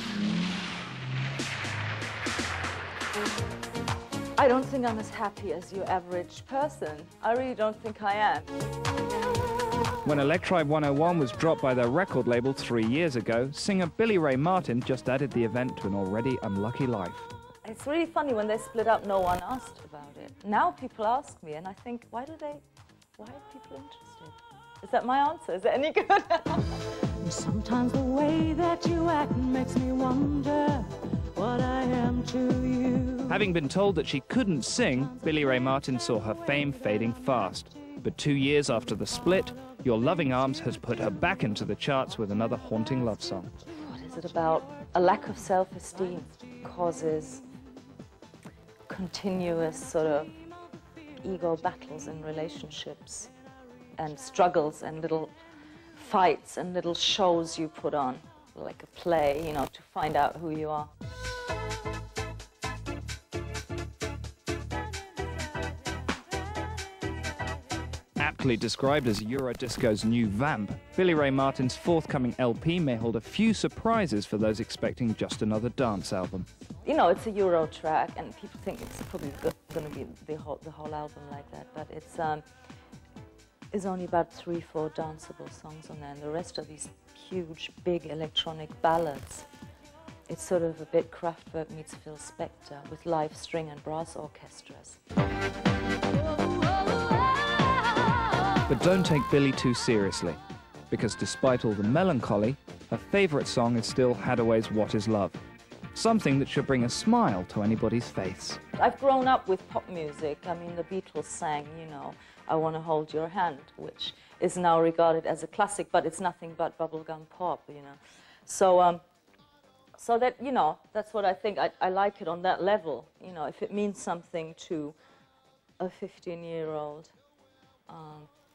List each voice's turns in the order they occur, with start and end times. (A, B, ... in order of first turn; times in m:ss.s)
0:04.4-0:08.5 A
0:10.0-0:17.3 B
0:17.6-0:22.6 A
0:23.2-0:26.8 A
0:27.2-0:33.3 C
0:33.3-0:43.5 B
0:43.7-0:47.4 A
0:48.9-0:50.3 A
0:51.2-0:53.3 A
0:54.0-0:55.3 A
0:55.9-1:00.9 A
1:08.2-1:16.5 B
1:16.8-1:22.4 A
1:23.7-1:29.5 A
1:30.3-1:35.0 A
1:38.7-1:40.4 B
1:40.9-1:45.4 B
1:45.9-1:48.6 B
1:48.8-1:59.0 A
2:00.0-2:05.0 A
2:05.8-2:07.1 A
2:07.9-2:08.3 A